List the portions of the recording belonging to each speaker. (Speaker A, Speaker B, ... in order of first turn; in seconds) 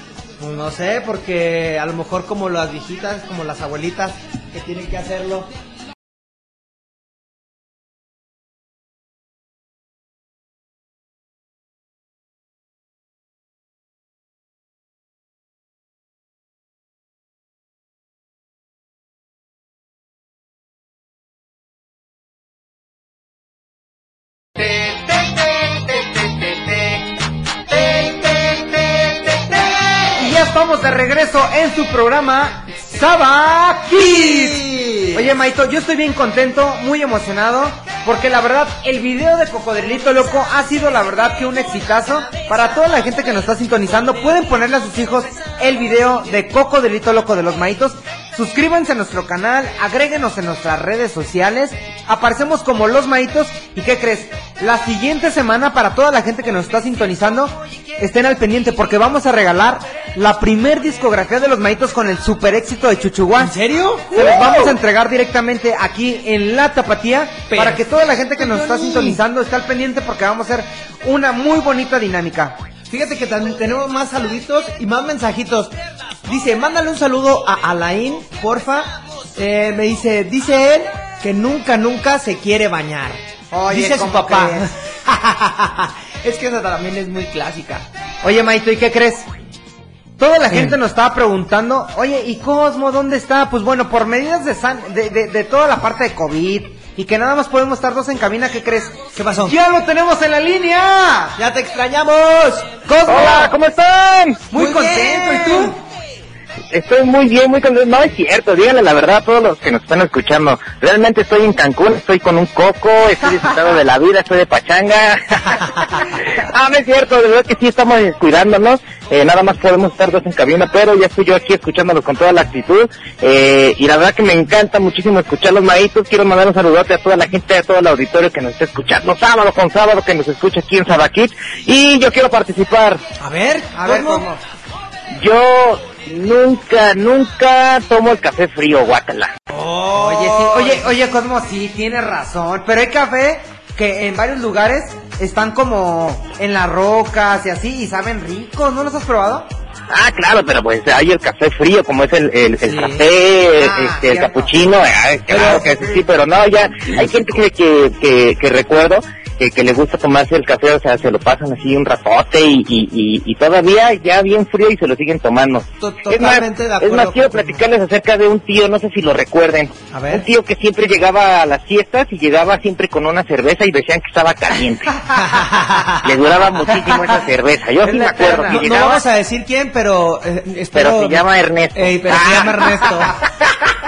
Speaker A: 0.4-5.5, 27.7-30.1, 34.0-35.3, 63.4-64.8, 67.5-69.2, 72.9-87.9, 90.5-90.8, 99.1-99.5, 101.3-102.7, 104.5-105.8, 133.2-134.3, 139.5-140.9, 152.7-153.1, 155.3-155.8, 165.8-167.6, 169.9-170.2, 175.1-176.1, 178.3-183.2
Speaker B: 30.1-34.6, 35.1-63.5, 64.1-72.5, 83.5-84.7, 88.2-89.3, 90.2-101.4, 102.8-103.6, 104.5-105.8, 133.8-134.4, 139.9-149.5, 153.6-154.5, 176.8-177.1, 177.8-178.6
Speaker C: 103.1-104.5, 106.7-133.0, 135.2-139.3, 149.9-175.0, 176.0-179.0, 180.7-182.6